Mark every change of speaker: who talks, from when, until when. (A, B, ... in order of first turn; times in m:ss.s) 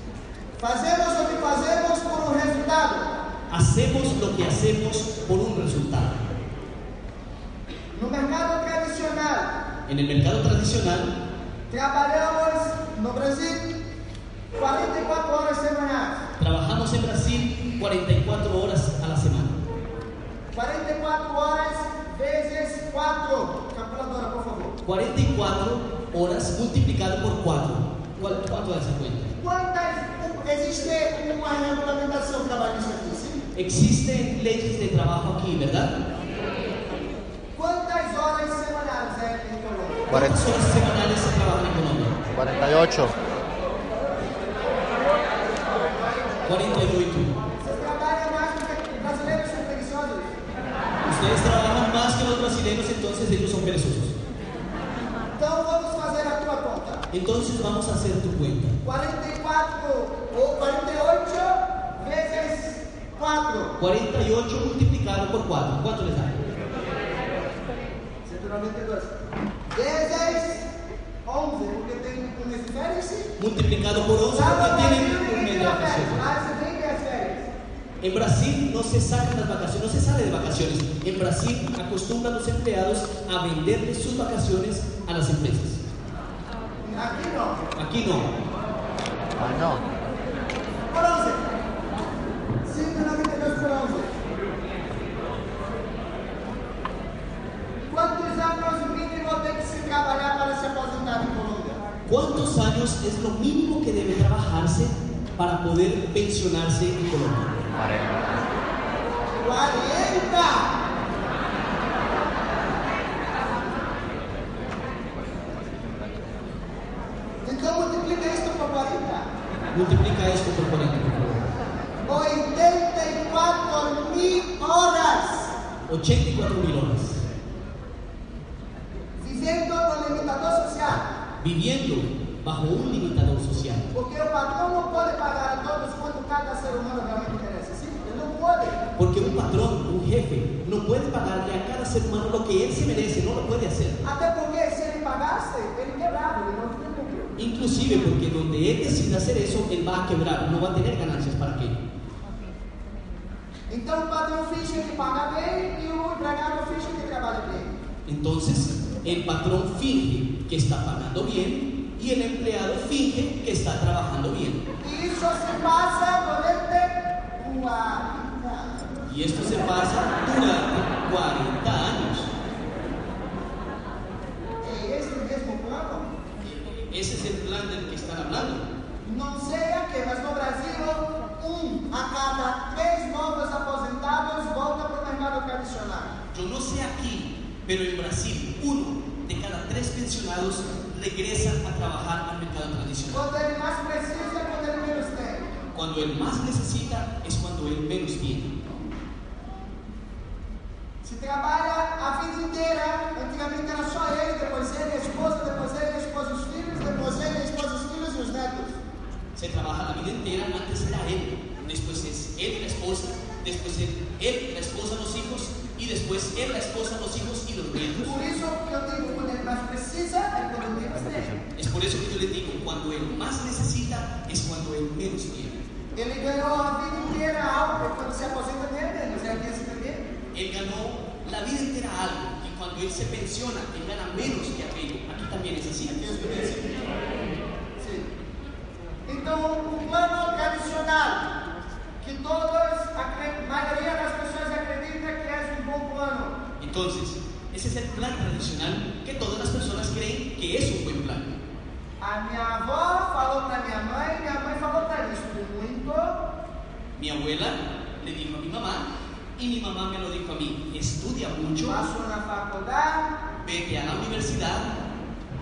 0:00.6-0:03.1 A
0:03.5-0:06.2 B
0:07.9-0:09.6 A
0:09.9-0:11.2 B
0:11.7-0:13.8 A
0:14.6-0:16.2 A
0:16.4-0:19.6 B
0:20.5-0:24.8 A
0:24.8-0:29.4 B
0:29.4-0:33.5 A
0:33.6-0:36.0 B
0:37.6-0:40.2 A
0:40.1-0:42.2 B
0:40.1-0:40.4 C
0:42.3-0:43.2 C
0:46.4-0:47.3 B
0:47.6-0:50.4 A
0:51.0-0:54.2 B
0:55.4-0:57.1 A
0:57.1-0:58.8 B
0:58.8-1:03.8 A
1:03.8-1:06.4 B
1:08.2-1:09.1 A
1:09.7-1:10.7 A
1:11.2-1:13.4 A
1:13.4-1:16.3 B
1:14.3-1:17.5 A
1:18.0-1:25.8 B
1:26.8-1:27.6 A
1:27.8-1:28.4 B
1:29.4-1:29.9 C
1:30.9-1:31.4 A
1:32.6-1:34.1 A
1:37.9-1:41.8 A
1:42.1-1:47.7 B
1:47.9-1:48.2 C
1:49.4-1:50.8 A
1:57.4-1:59.3 A
1:59.7-2:01.5 B
2:02.1-2:05.6 A
2:05.9-2:07.2 B
2:09.2-2:11.1 A
2:11.4-2:13.9 B
2:13.9-2:18.8 A
2:19.0-2:24.0 B
2:24.0-2:27.3 A
2:27.4-2:31.8 B
2:33.7-2:37.7 A
2:38.1-2:44.7 B
2:44.8-2:49.0 A
2:49.1-2:52.3 B
2:54.6-2:56.1 A
2:56.4-2:58.7 B
2:59.0-3:06.2 A
3:06.3-3:13.3 B
3:13.1-3:15.5 A
3:15.7-3:18.6 B
3:21.0-3:28.8 A
3:29.4-3:38.2 B
3:38.0-3:41.4 A
3:41.6-3:45.6 B
3:46.0-3:50.1 A
3:50.3-3:56.2 B
3:56.0-3:56.8 A
3:57.8-3:58.1 A
3:59.1-4:01.4 A
4:02.0-4:06.4 A
4:06.6-4:11.4 B
4:12.0-4:16.3 A
4:17.0-4:21.8 B
4:21.7-4:23.1 A
4:23.4-4:24.8 B